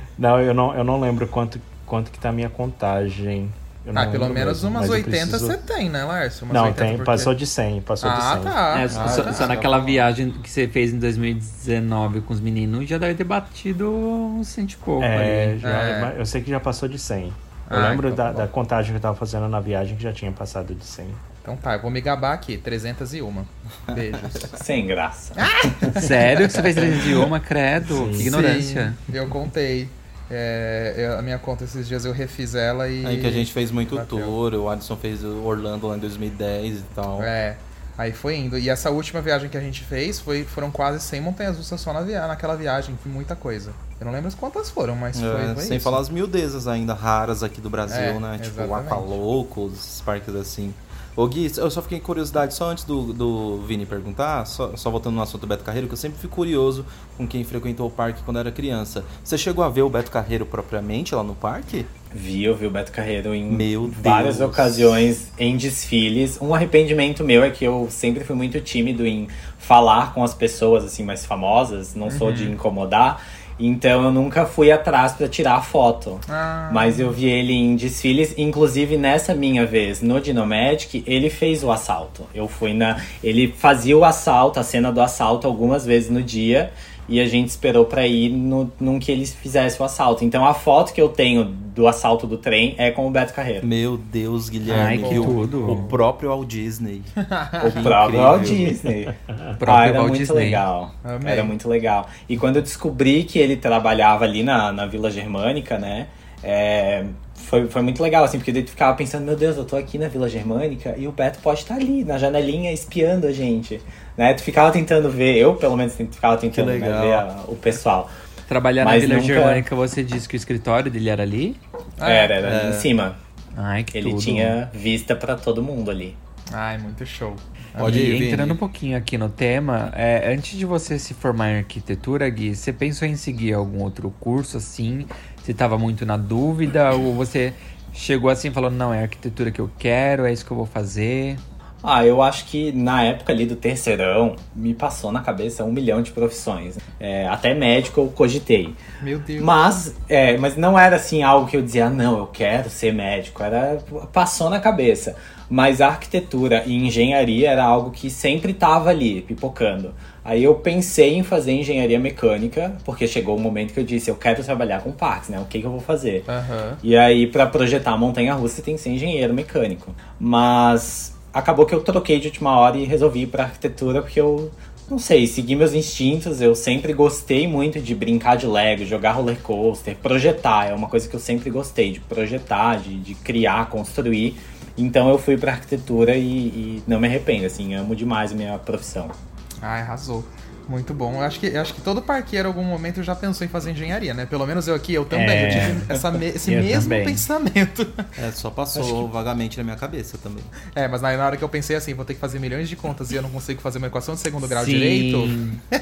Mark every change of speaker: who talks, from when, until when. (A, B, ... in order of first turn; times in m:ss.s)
0:00.2-0:05.6 A
0:03.9-0:07.3 B
0:06.5-0:08.7 A
0:08.0-0:09.5 B
0:08.7-0:15.6 C
0:08.9-0:10.1 D
0:15.0-0:21.2 A
0:15.6-0:16.1 B
0:17.7-0:18.5 B
0:21.4-0:24.6 B
0:23.9-0:24.4 D
0:24.6-0:25.8 E
0:25.4-0:25.9 B
0:25.9-0:29.0 C
0:27.9-0:28.3 A
0:28.2-0:34.4 B
0:33.0-0:37.3 D
0:37.2-0:46.0 B
0:45.1-1:01.9 D
0:47.9-0:49.1 B
1:02.1-1:33.7 E
1:03.5-1:05.1 D
1:12.0-1:12.5 B
1:16.3-1:17.2 B
1:33.6-1:38.8 D
1:34.7-1:35.9 C
1:35.0-1:36.0 B
1:37.3-1:37.9 B
1:37.6-1:58.1 E
1:39.6-1:40.6 C
1:41.0-1:41.5 B
1:56.5-1:57.2 D
1:58.5-2:01.6 C
1:58.8-1:59.6 E
2:02.0-2:02.3 B
2:02.0-2:03.2 E
2:02.4-2:02.9 D
2:03.5-2:04.6 C
2:03.9-2:06.2 E
2:06.5-2:08.1 B
2:07.8-2:08.6 D
2:07.8-2:21.4 C
2:21.8-2:28.8 E
2:29.0-2:29.7 B
2:29.4-2:46.2 E
2:46.3-2:46.8 B
2:46.8-3:09.1 E
3:09.6-3:18.1 B
3:15.1-3:16.0 E
3:16.5-3:17.2 C
3:18.2-3:20.5 D
3:18.7-3:19.1 E
3:20.7-3:25.4 B
3:24.5-3:25.6 C